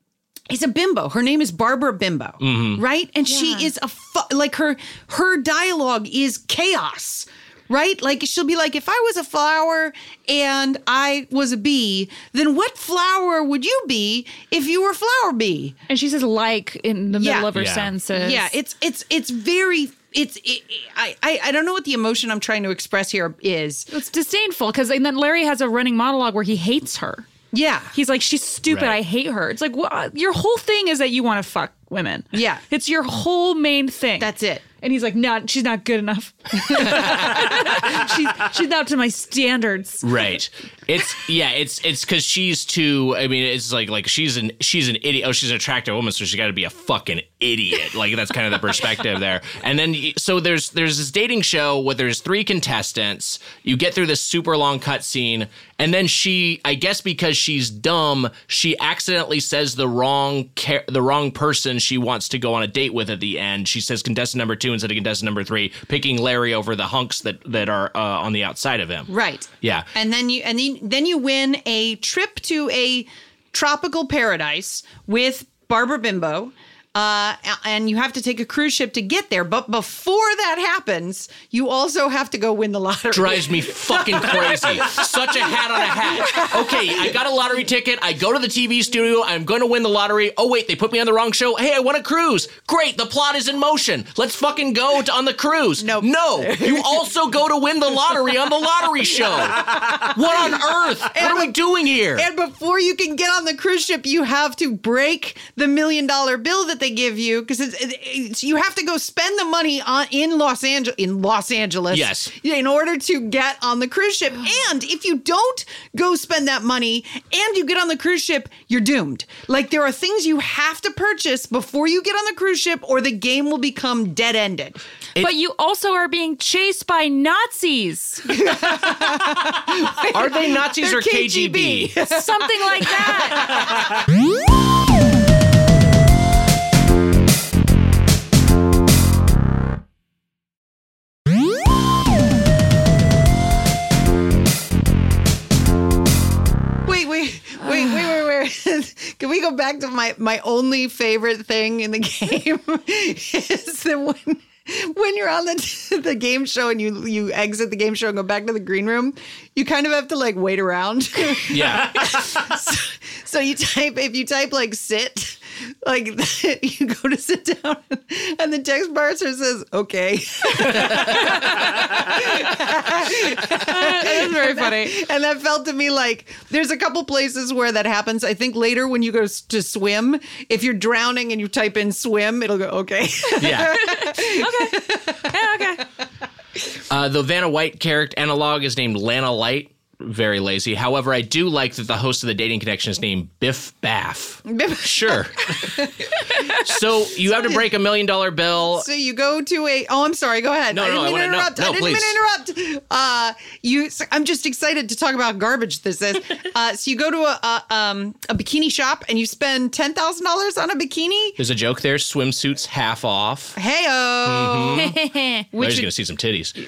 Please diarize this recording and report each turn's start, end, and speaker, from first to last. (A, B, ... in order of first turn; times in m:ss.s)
0:00.5-0:15.8 A
0:02.4-0:02.8 B
0:03.3-0:03.7 C
0:15.9-0:18.5 C
0:17.1-0:17.5 A
0:17.5-0:17.9 B
0:18.1-0:23.9 A
0:23.9-0:27.3 C
0:27.5-0:27.9 A
0:27.9-0:40.1 C
0:28.7-0:29.0 B
0:32.3-0:32.6 A
0:34.2-0:34.6 A
0:37.0-0:37.5 B
0:40.0-1:09.9 B
1:09.1-1:27.1 A
1:23.1-1:42.3 B
1:35.8-1:37.0 A
1:39.7-1:40.0 A
1:41.1-1:41.6 A
1:42.1-2:04.8 A
1:51.9-1:52.3 B
2:05.2-2:08.3 C
2:08.3-2:14.0 A
2:10.1-2:11.9 B
2:12.0-2:13.7 C
2:26.8-3:05.3 A
2:41.5-2:42.2 B
2:53.5-2:55.0 C
3:03.4-3:03.9 B
3:03.6-3:05.8 C
3:06.9-3:18.9 B
3:14.5-3:16.3 A
3:18.6-3:31.4 A
3:20.7-3:22.2 B
3:31.4-3:33.6 B
3:33.6-3:34.9 A
3:34.2-3:34.9 B
3:34.7-3:35.5 C
3:35.5-3:35.9 A
3:35.6-3:36.6 B